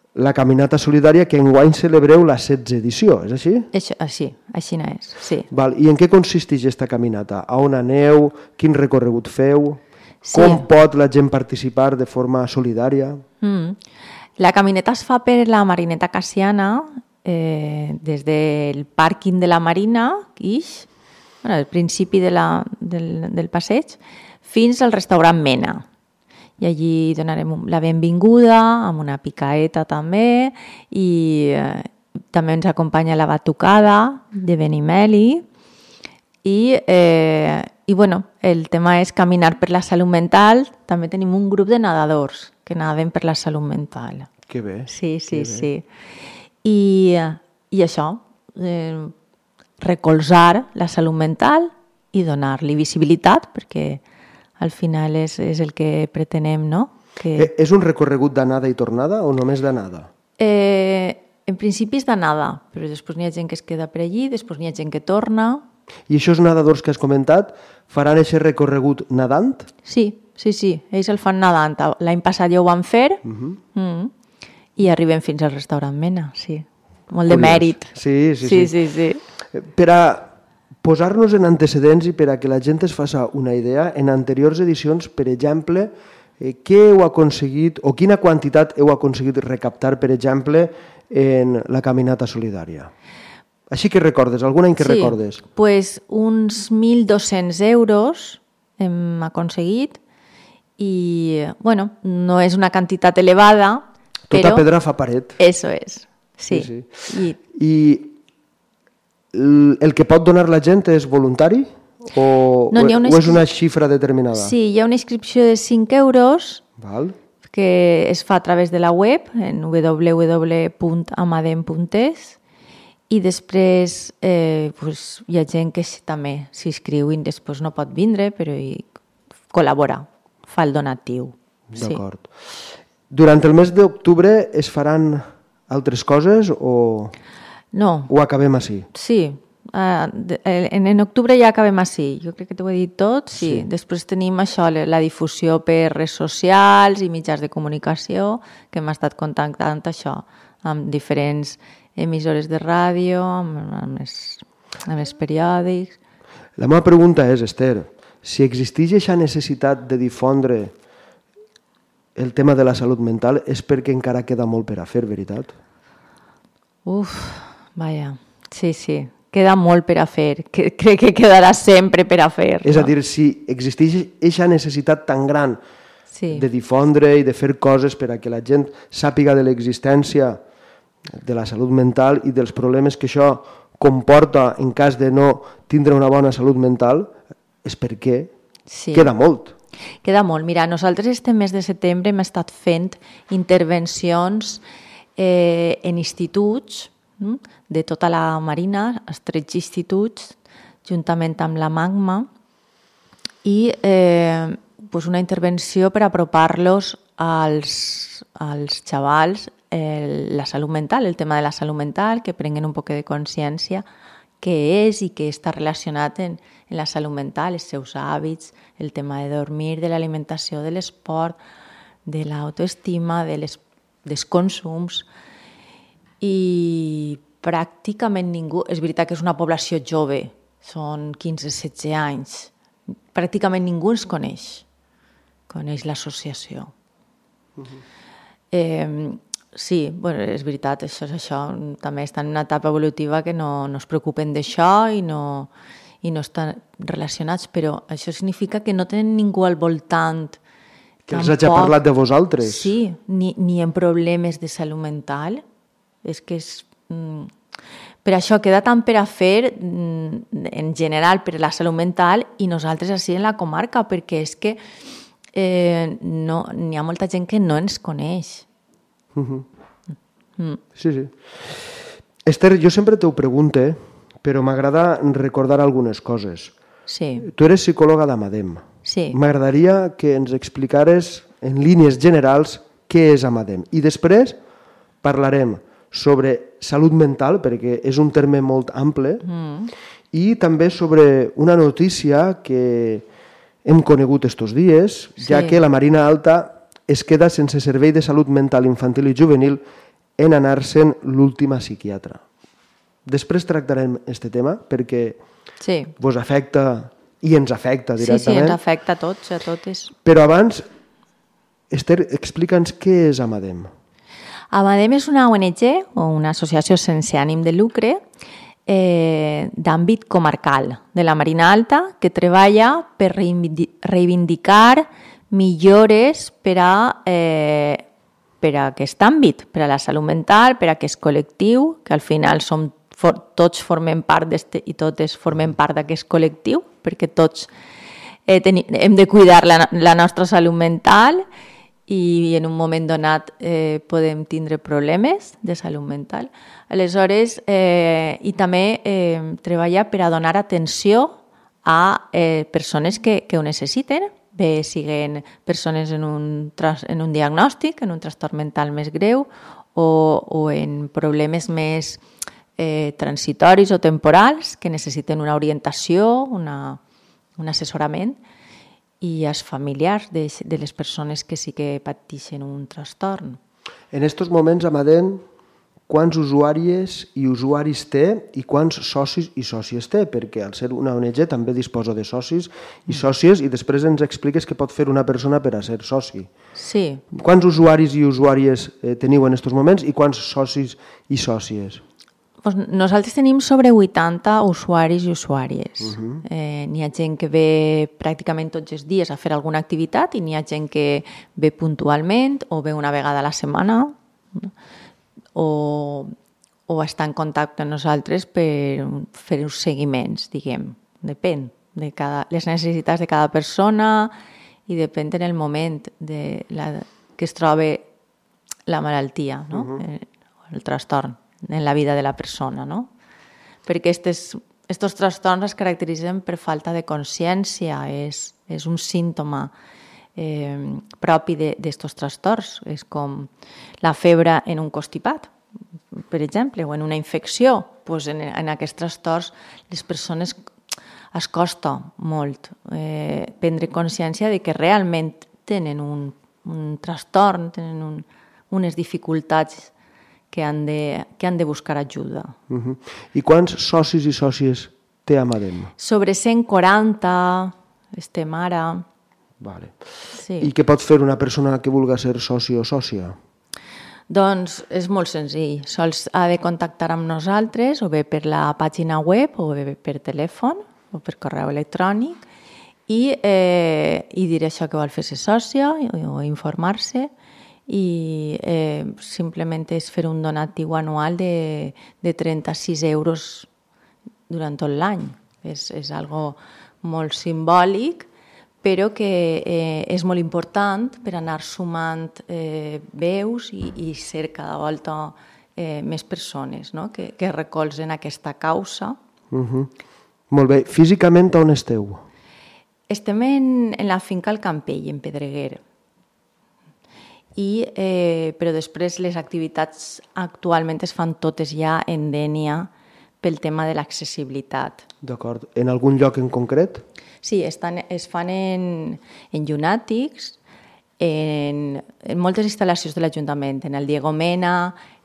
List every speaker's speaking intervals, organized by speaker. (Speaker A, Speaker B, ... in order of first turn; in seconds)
Speaker A: 0.1-3.7, 5.5-9.8, 10.3-13.2, 44.5-45.7, 57.4-60.1, 66.1-69.7, 73.2-73.6, 77.3-78.7, 79.5-92.9, 93.7-95.4, 104.3-105.4, 106.5-108.1, 109.3-114.5, 116.8-117.1, 131.7-137.1, 138.1-138.9, 143.3-143.7, 156.6-160.7, 162.2-165.5, 172.6-175.6, 176.3-180.4, 181.1-188.3, 188.9-189.5, 251.1-252.7, 269.1-269.4, 270.8-271.6, 272.2-276.5, 277.2-284.4, 285.0-289.2, 290.1-293.1, 293.6-299.6, 300.2-302.2, 303.1-305.2, 306.0-308.6, 310.0-310.6, 311.7-313.7, 373.9-375.2, 375.9-386.3, 387.1-391.8, 395.8-396.2, 419.5-419.8, 452.5-455.7, 459.4-459.8, 460.4-463.2, 499.3-499.7, 500.3-502.0, 515.0-516.8
Speaker B: 3.7-5.5, 10.2-10.7, 13.4-13.8, 14.4-20.9, 21.4-25.9, 26.6-35.4, 36.4-44.3, 44.9-45.9, 46.6-49.1, 49.8-54.0, 54.6-57.5, 60.4-65.6, 69.8-74.1, 74.8-79.2, 94.8-100.0, 100.8-104.6, 105.4-107.4, 112.7-113.4, 114.3-116.6, 117.5-122.4, 123.1-128.9, 129.5-132.0, 137.7-138.1, 138.9-156.0, 166.8-172.9, 176.1-176.4, 188.7-189.1, 190.0-194.6, 195.2-202.3, 203.4-213.8, 214.4-221.4, 222.1-225.1, 226.2-232.5, 233.1-234.7, 235.5-236.7, 238.5-245.5, 246.0-250.4, 251.1-251.8, 252.4-255.4, 256.0-257.3, 258.0-264.6, 265.3-268.4, 276.9-277.3, 278.8-279.2, 289.2-289.7, 295.2-295.6, 305.6-305.9, 308.0-309.9, 314.5-318.0, 318.7-327.9, 328.4-337.5, 338.2-341.2, 341.9-362.0, 362.6-366.8, 367.4-368.2, 369.0-373.4, 386.6-387.0, 392.4-404.5, 405.3-406.1, 406.7-414.1, 414.7-417.9, 418.7-422.9, 423.6-429.5, 430.1-433.3, 433.8-435.3, 435.9-440.4, 441.1-449.7, 450.3-452.4, 455.8-458.8, 460.1-460.5, 464.1-472.2, 472.9-477.1, 477.7-483.5, 484.3-488.1, 488.6-499.0, 502.9-505.6, 507.4-512.7, 513.2-514.8, 517.2-520.4, 521.0-524.8